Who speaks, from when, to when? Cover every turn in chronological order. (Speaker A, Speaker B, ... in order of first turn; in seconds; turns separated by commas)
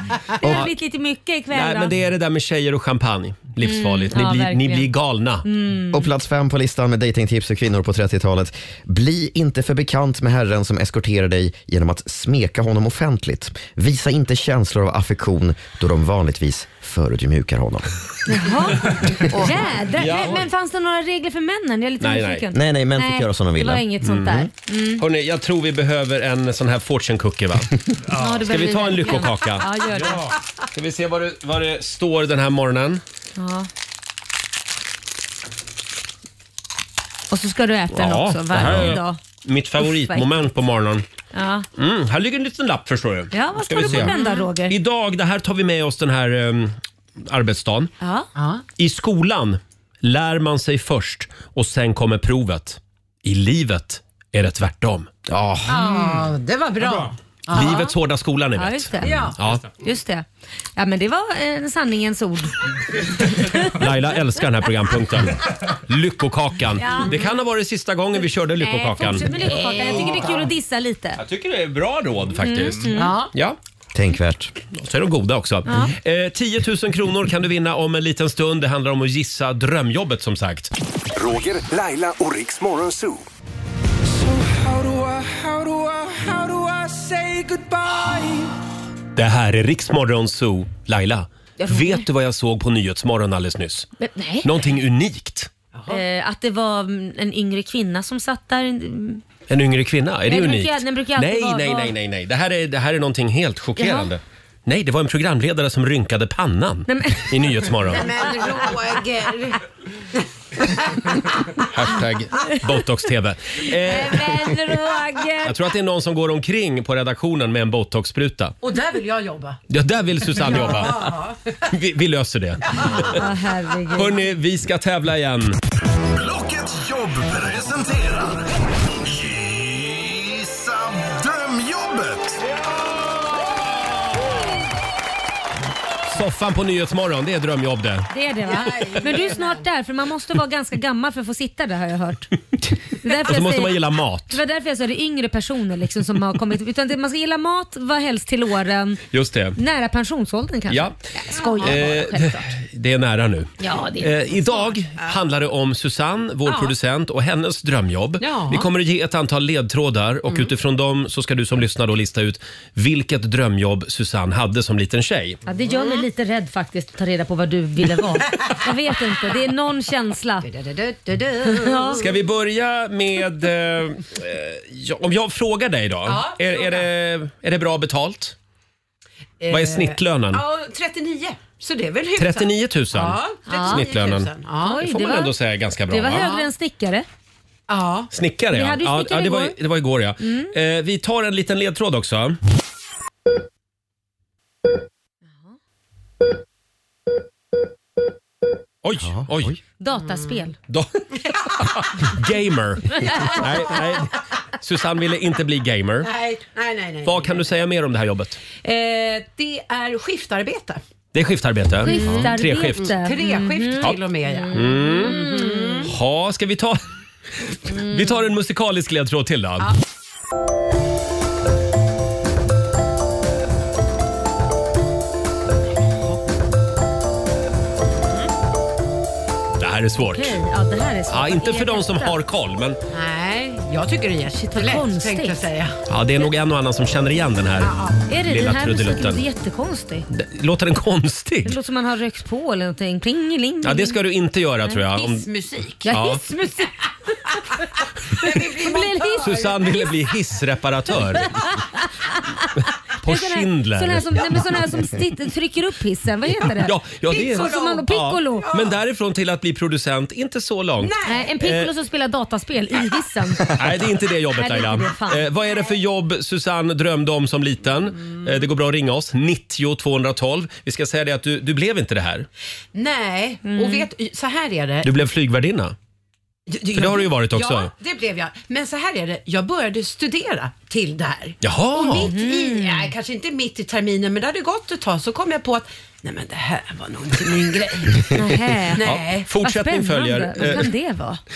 Speaker A: 0.4-1.9, Speaker B: 0.4-0.7, Speaker B: 1.5-5.5, Speaker A: 3.6-4.9, Speaker A: 5.4-6.1, Speaker C: 5.9-17.9, Speaker A: 18.3-25.0, Speaker C: 19.0-19.5, Speaker B: 19.9-20.5, Speaker B: 22.0-22.4, Speaker C: 22.5-24.5, Speaker B: 24.0-24.4, Speaker B: 25.0-27.7, Speaker A: 28.1-30.3, Speaker B: 28.3-29.7, Speaker B: 30.7-33.0, Speaker A: 33.4-33.7, Speaker A: 37.3-39.2, Speaker B: 37.9-41.0, Speaker A: 39.8-40.5, Speaker A: 41.3-41.7, Speaker B: 41.8-44.1, Speaker A: 43.3-44.8, Speaker B: 44.7-47.9, Speaker A: 48.0-48.3, Speaker D: 48.4-48.6, Speaker B: 48.8-56.1, Speaker D: 55.7-57.9, Speaker B: 57.5-59.6, Speaker A: 58.6-63.8, Speaker D: 59.0-59.4, Speaker B: 63.5-69.3, Speaker A: 66.8-67.3, Speaker A: 68.6-71.2, Speaker D: 69.2-70.5, Speaker B: 71.2-73.6, Speaker A: 72.4-73.2, Speaker D: 72.9-73.3, Speaker C: 73.9-74.5, Speaker B: 74.7-80.7, Speaker A: 75.7-75.9, Speaker E: 81.2-83.2, Speaker E: 84.2-88.4, Speaker B: 89.2-93.9, Speaker A: 91.6-92.0, Speaker A: 94.0-94.5, Speaker B: 94.4-95.5, Speaker D: 95.7-96.0, Speaker A: 95.9-99.2, Speaker B: 99.5-108.3, Speaker A: 100.3-101.9, Speaker A: 103.8-104.1, Speaker A: 106.9-107.4, Speaker D: 107.9-109.6, Speaker B: 111.7-114.6, Speaker A: 113.6-115.6, Speaker B: 115.4-118.6, Speaker D: 118.6-119.6, Speaker B: 119.7-123.2, Speaker D: 120.3-121.4, Speaker A: 122.8-124.2, Speaker B: 123.9-125.6, Speaker E: 126.2-128.5, Speaker E: 129.0-132.4, Speaker B: 136.1-138.1, Speaker A: 138.1-142.3, Speaker D: 138.4-139.7, Speaker A: 142.9-149.0, Speaker B: 143.2-144.4, Speaker B: 149.1-149.6, Speaker A: 149.6-152.5, Speaker B: 150.7-151.0, Speaker D: 151.3-151.9, Speaker B: 151.6-165.4, Speaker A: 153.6-154.3, Speaker D: 156.5-156.7, Speaker D: 158.2-158.7, Speaker A: 165.5-170.5, Speaker D: 165.7-166.1, Speaker D: 170.4-172.1, Speaker A: 171.5-172.0, Speaker B: 172.0-178.3, Speaker D: 176.1-176.9, Speaker D: 179.4-184.8, Speaker B: 179.5-180.4, Speaker B: 182.2-186.2, Speaker A: 183.5-183.9, Speaker A: 184.6-185.3, Speaker A: 185.9-187.1, Speaker D: 186.1-186.5, Speaker D: 187.7-188.1, Speaker B: 188.1-192.4, Speaker A: 188.5-189.6, Speaker A: 190.2-190.5, Speaker B: 198.8-199.6, Speaker C: 199.0-199.6, Speaker A: 199.8-200.6, Speaker D: 199.9-200.3, Speaker B: 200.7-206.1, Speaker A: 203.0-203.4, Speaker D: 203.3-203.9, Speaker D: 206.0-207.4, Speaker B: 207.0-208.4, Speaker D: 208.5-210.8, Speaker B: 211.1-212.9, Speaker A: 211.8-215.9, Speaker D: 211.9-215.9, Speaker B: 214.5-215.2, Speaker B: 215.8-216.8, Speaker B: 217.7-219.8, Speaker A: 217.7-218.2, Speaker B: 229.6-230.4, Speaker A: 230.1-232.2, Speaker B: 231.1-232.8, Speaker D: 232.9-235.8, Speaker A: 234.3-235.5, Speaker B: 235.9-237.8, Speaker D: 237.6-238.1, Speaker A: 238.1-240.1, Speaker B: 238.3-239.2, Speaker B: 240.1-241.6, Speaker A: 241.4-244.0, Speaker B: 243.6-245.3, Speaker D: 244.9-245.9, Speaker A: 245.8-246.7, Speaker B: 245.9-246.2, Speaker D: 248.1-249.8, Speaker A: 248.2-249.9, Speaker B: 249.2-251.6, Speaker A: 251.2-256.7, Speaker B: 253.0-254.3, Speaker B: 256.5-261.7, Speaker D: 257.1-258.8, Speaker A: 257.3-258.5, Speaker D: 260.8-261.3, Speaker A: 261.0-263.6, Speaker B: 263.5-272.3, Speaker A: 264.4-265.2, Speaker D: 272.7-274.9, Speaker A: 273.4-273.9, Speaker B: 274.8-275.8, Speaker D: 276.5-289.3, Speaker B: 276.7-277.7, Speaker B: 281.4-282.1, Speaker A: 281.9-282.9, Speaker A: 288.1-288.9, Speaker B: 288.8-290.7, Speaker A: 289.4-291.2